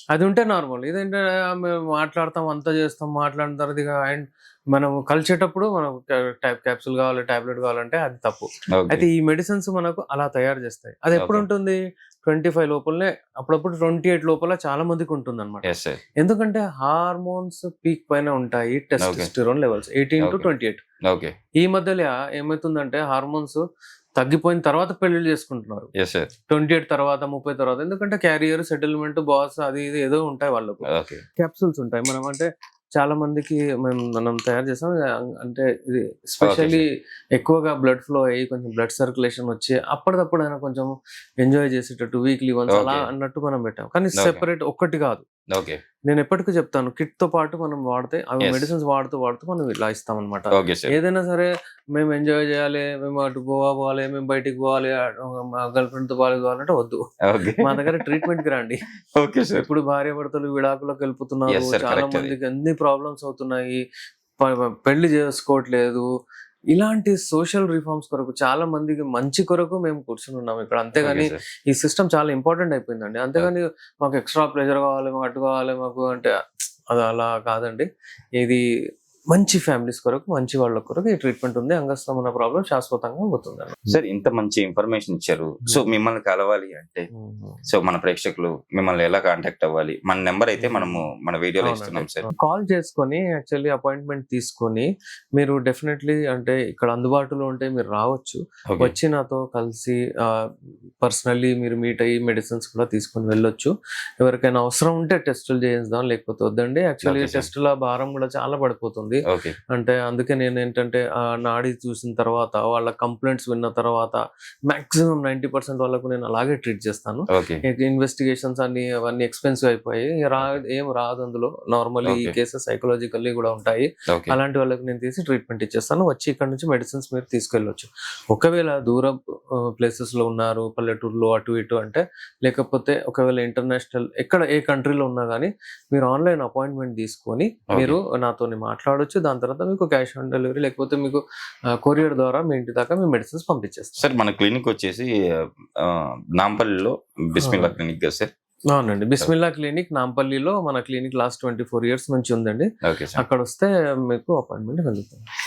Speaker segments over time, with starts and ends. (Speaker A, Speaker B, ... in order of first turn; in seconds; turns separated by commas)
Speaker A: 0.1-15.7, Speaker B: 8.7-9.0, Speaker B: 11.1-11.4, Speaker B: 15.6-16.0, Speaker A: 16.2-20.8, Speaker B: 19.0-19.3, Speaker B: 20.2-20.5, Speaker B: 21.1-21.3, Speaker A: 21.6-23.6, Speaker A: 24.2-25.9, Speaker B: 26.0-26.3, Speaker A: 26.5-30.9, Speaker B: 30.9-31.2, Speaker A: 31.4-45.2, Speaker B: 36.4-36.8, Speaker B: 42.7-43.0, Speaker B: 44.2-44.4, Speaker B: 45.5-45.8, Speaker A: 46.0-57.0, Speaker B: 48.4-48.7, Speaker B: 50.5-50.9, Speaker B: 57.2-58.2, Speaker A: 57.6-58.8, Speaker B: 59.2-59.7, Speaker A: 59.6-63.8, Speaker B: 61.5-62.3, Speaker A: 64.4-66.0, Speaker A: 66.7-76.3, Speaker B: 71.0-71.4, Speaker A: 76.9-78.6, Speaker A: 79.3-83.8, Speaker B: 83.9-87.1, Speaker A: 87.1-87.6, Speaker B: 87.7-92.3, Speaker A: 90.6-91.0, Speaker A: 91.6-100.5, Speaker A: 101.0-109.2, Speaker B: 107.0-107.5, Speaker B: 109.3-109.5, Speaker A: 109.7-129.2, Speaker B: 117.3-117.6, Speaker B: 122.0-122.3, Speaker B: 124.1-124.3, Speaker A: 129.8-141.2, Speaker B: 137.7-138.0, Speaker A: 141.8-144.0, Speaker B: 144.0-145.1, Speaker B: 145.8-148.3, Speaker A: 147.4-147.7, Speaker A: 148.7-155.2, Speaker B: 152.8-153.2